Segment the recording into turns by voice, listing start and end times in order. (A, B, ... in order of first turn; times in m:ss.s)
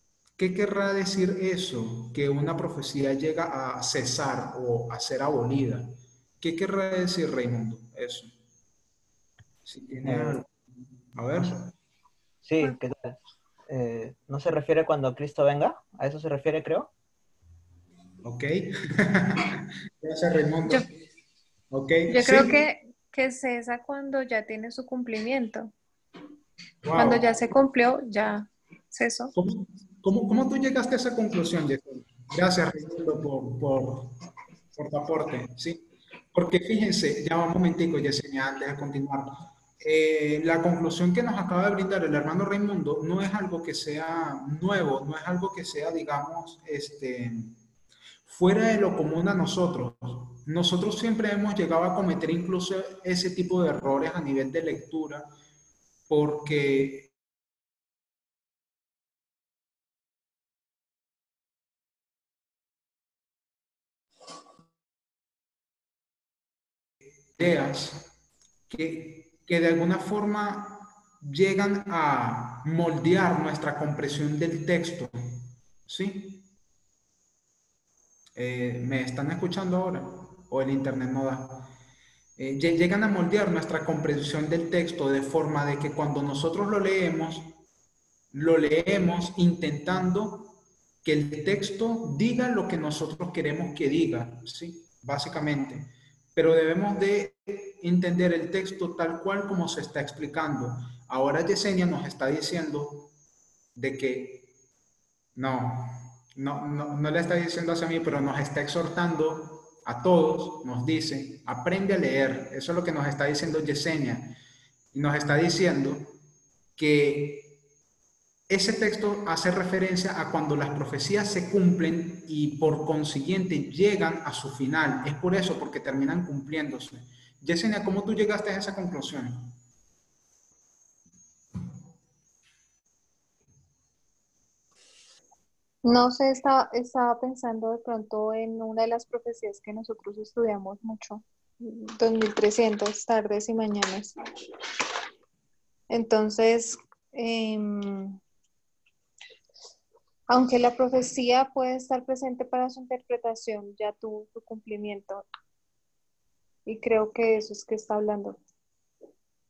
0:00.4-0:08.3 A
0:09.6-0:10.5 A
0:10.0-0:10.4 B
0:11.1-0:11.7 A
0:12.4-0:16.9 B
0:18.2-0:20.8 A
0:21.7-0:22.6 A
0:22.1-0:25.7 C
0:26.8-0:27.3 A
0:26.9-0:29.3 C
0:29.3-0:34.1 A
0:34.8-0:47.5 A
0:48.2-0:55.3 A
0:56.1-0:57.1 A
1:07.4-1:08.1 A
1:08.7-1:16.4 A
1:18.4-1:21.7 A
1:22.4-1:27.5 A
1:28.3-1:43.1 A
1:43.8-1:44.5 A
1:45.4-1:54.4 A
1:54.9-1:56.2 A
1:56.8-1:57.6 A
1:58.5-2:09.5 A
2:15.8-2:24.1 C
2:25.9-2:28.2 C
2:30.3-2:35.2 C
2:36.6-2:38.4 C